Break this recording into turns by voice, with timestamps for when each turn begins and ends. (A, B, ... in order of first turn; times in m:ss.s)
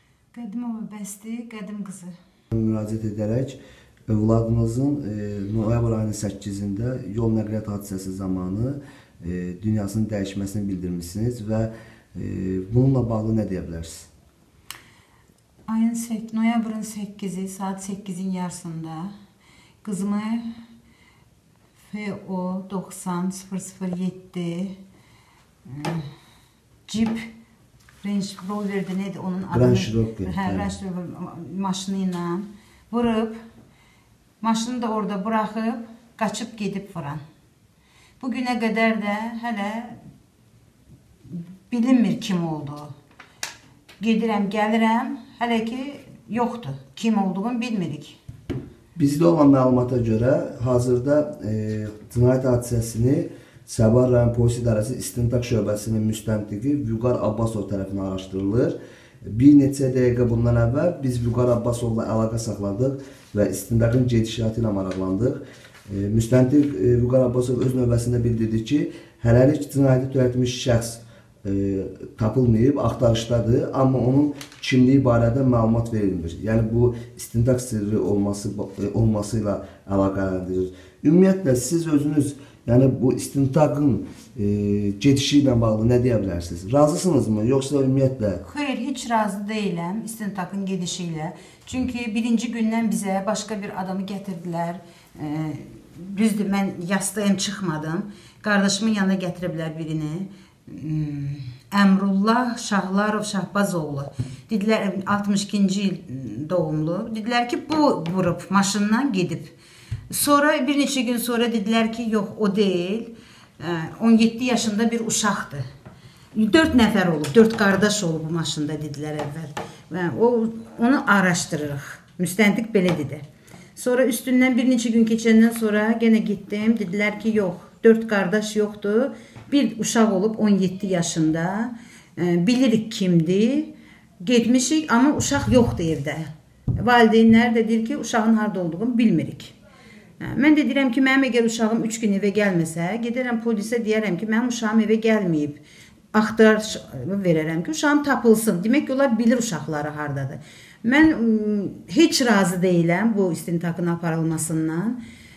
0:00.3-0:02.1 A
0:02.5-0:14.1 B
0:15.7-0:19.1 A
0:19.8-0:20.5 A
0:21.9-0:24.7 A
0:25.6-0:26.1 A
0:26.9-0:27.3 A
0:28.0-0:33.4 A
0:29.5-0:30.7 B
0:34.4-0:37.2 A
0:38.2-0:40.0 A
0:41.3-0:42.9 A
0:44.0-0:48.2 A
0:49.0-1:28.4 B
1:28.4-1:49.5 A
1:50.1-1:55.6 A
1:56.3-2:03.2 A
2:03.8-2:19.6 A
2:20.2-2:25.6 A
2:26.1-2:35.0 A